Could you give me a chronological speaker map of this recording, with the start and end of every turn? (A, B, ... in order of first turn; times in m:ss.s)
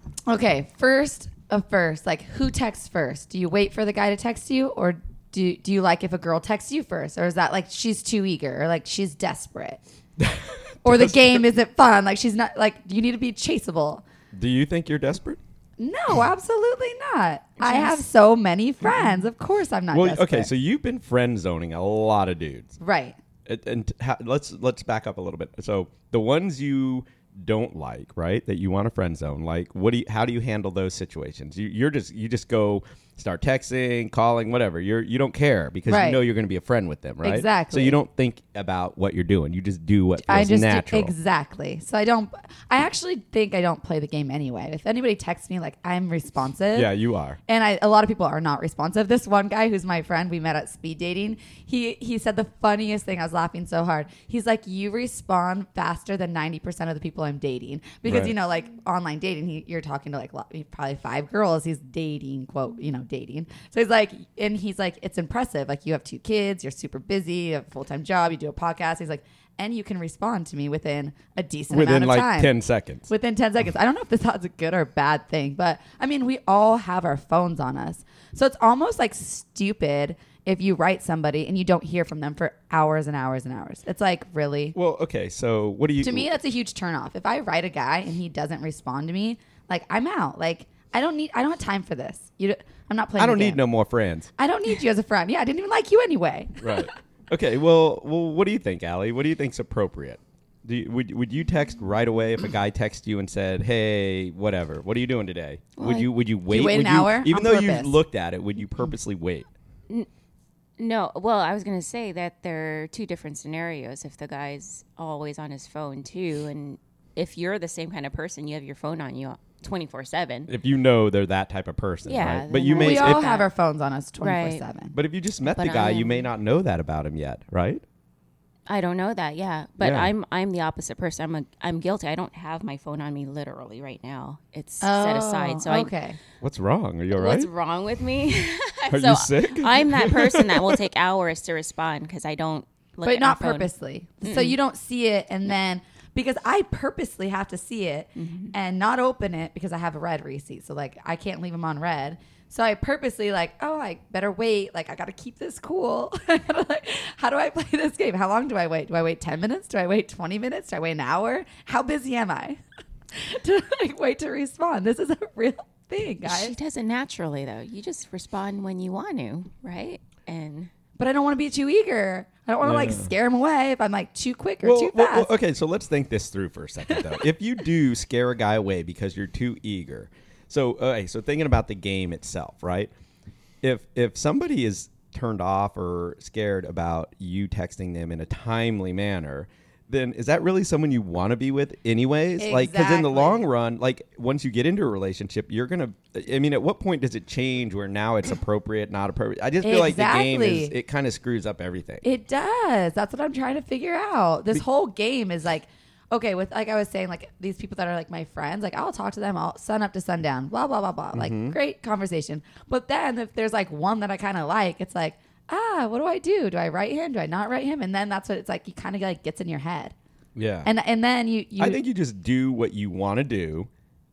0:00.3-0:09.8 A
0:10.2-0:11.4 B
0:10.8-0:14.0 A
0:14.3-0:15.4 B
0:15.8-0:20.5 A
0:17.6-0:18.0 C
0:19.9-0:22.7 B
0:22.8-0:23.2 A
0:23.4-0:41.1 B
0:35.9-0:36.2 A
0:37.2-0:38.0 A
0:40.3-0:46.9 A
0:46.7-0:47.4 B
0:47.5-1:12.5 A
0:58.1-0:58.3 B
1:11.7-1:13.1 B
1:13.1-1:24.7 A
1:24.7-1:26.3 B
1:26.0-1:33.6 A
1:33.2-1:34.3 B
1:34.4-1:36.9 A
1:36.6-1:49.5 B
1:45.8-1:46.1 C
1:46.5-1:48.0 A
1:50.8-2:00.5 C
2:00.5-2:03.2 B
2:02.1-2:03.5 C
2:02.7-2:04.9 A
2:04.2-2:04.6 C
2:04.9-2:07.8 B
2:05.4-2:06.3 C
2:08.7-2:15.9 C
2:09.8-2:10.1 B
2:14.8-2:16.2 A
2:16.4-2:17.5 B
2:17.1-2:23.7 C
2:18.9-2:20.8 B
2:23.0-2:42.6 A
2:24.2-2:24.6 C
2:28.2-2:28.5 C
2:43.1-2:46.5 A
2:46.2-2:50.7 C
2:51.0-2:55.3 A
2:52.6-2:53.1 B
2:54.6-3:02.9 B
3:03.6-3:22.0 B
3:12.4-3:13.4 A
3:19.6-3:20.7 A
3:22.0-3:39.9 A
3:31.1-3:31.6 B
3:40.4-3:40.7 B
3:40.6-3:41.8 A
3:41.6-3:43.7 B